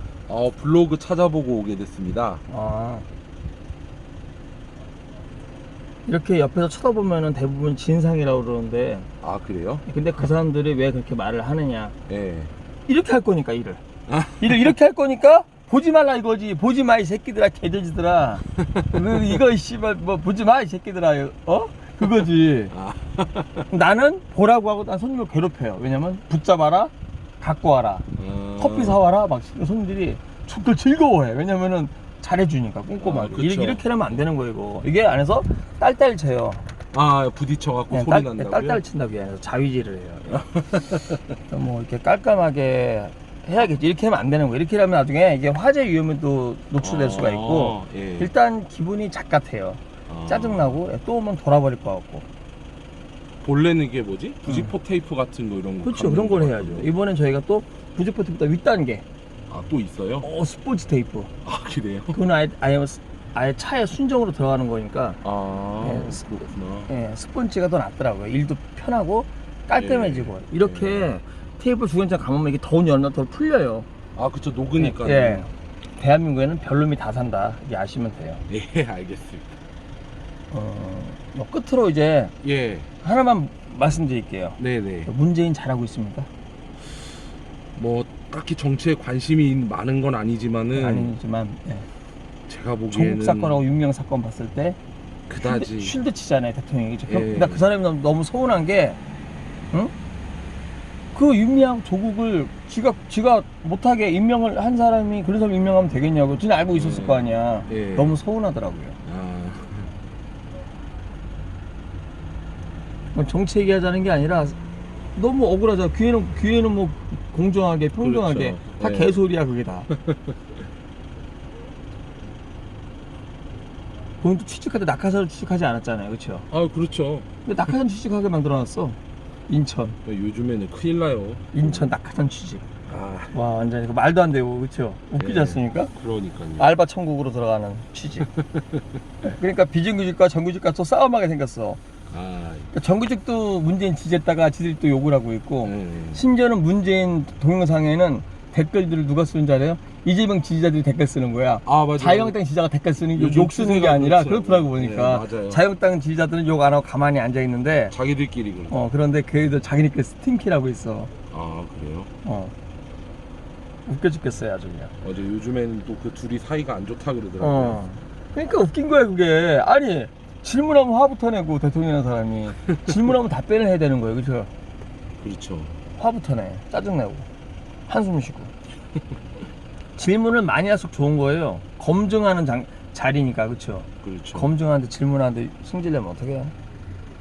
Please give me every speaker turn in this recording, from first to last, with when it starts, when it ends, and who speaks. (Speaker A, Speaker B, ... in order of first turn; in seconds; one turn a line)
Speaker A: 0.3-2.4
Speaker B: 2.5-3.1
Speaker B: 6.1-9.1
Speaker A: 9.2-9.9
Speaker B: 9.9-12.0
Speaker A: 12.1-12.5
Speaker B: 12.9-13.8
Speaker A: 14.1-14.7
Speaker B: 14.4-22.7
Speaker A: 22.7-23.7
Speaker B: 23.7-36.7
Speaker A: 28.2-29.0
Speaker A: 33.0-33.9
Speaker A: 36.9-38.8
Speaker B: 37.9-40.5
Speaker A: 40.3-41.2
Speaker B: 41.5-52.3
Speaker A: 46.8-48.3
Speaker A: 50.1-50.8
Speaker A: 53.4-56.9
Speaker B: 54.5-54.7
Speaker B: 55.8-59.0
Speaker A: 59.5-60.3
Speaker B: 60.2-61.3
Speaker A: 61.4-62.2
Speaker B: 62.1-65.2
Speaker A: 65.2-66.9
Speaker B: 65.8-66.2
Speaker B: 66.9-73.9
Speaker A: 69.8-71.1
Speaker A: 74.2-75.5
Speaker B: 74.8-78.4
Speaker A: 78.5-79.6
Speaker B: 80.5-82.3
Speaker A: 82.4-82.9
Speaker B: 83.0-86.3
Speaker A: 84.6-85.1
Speaker A: 87.8-91.1
Speaker B: 90.8-91.9
Speaker A: 92.5-93.6
Speaker B: 92.9-94.8
Speaker A: 95.3-96.0
Speaker B: 95.4-99.0
Speaker A: 97.1-97.7
Speaker B: 101.1-109.0
Speaker A: 106.8-108.2
Speaker A: 109.0-109.9
Speaker B: 113.1-114.6
Speaker B: 115.2-119.9
Speaker A: 118.0-119.2
Speaker A: 119.9-120.4
Speaker B: 124.2-126.5
Speaker A: 126.5-127.3
Speaker B: 127.5-130.0
Speaker A: 130.1-131.9
Speaker B: 131.5-132.7
Speaker A: 132.9-133.4
Speaker B: 133.3-135.9
Speaker A: 135.2-136.7
Speaker B: 136.6-138.3
Speaker A: 138.2-138.9
Speaker B: 139.2-141.8
Speaker A: 142.1-142.7
Speaker B: 142.7-157.9
Speaker A: 145.6-146.2
Speaker A: 151.7-152.4
Speaker A: 153.1-155.6
Speaker A: 157.9-158.8
Speaker B: 158.7-161.1
Speaker A: 161.3-162.1
Speaker B: 162.2-162.5
Speaker B: 163.9-164.9
Speaker A: 165.0-167.8
Speaker B: 167.4-174.5
Speaker A: 175.2-175.8
Speaker B: 176.0-177.3
Speaker B: 177.9-178.5
Speaker B: 180.0-186.5
Speaker A: 184.0-184.5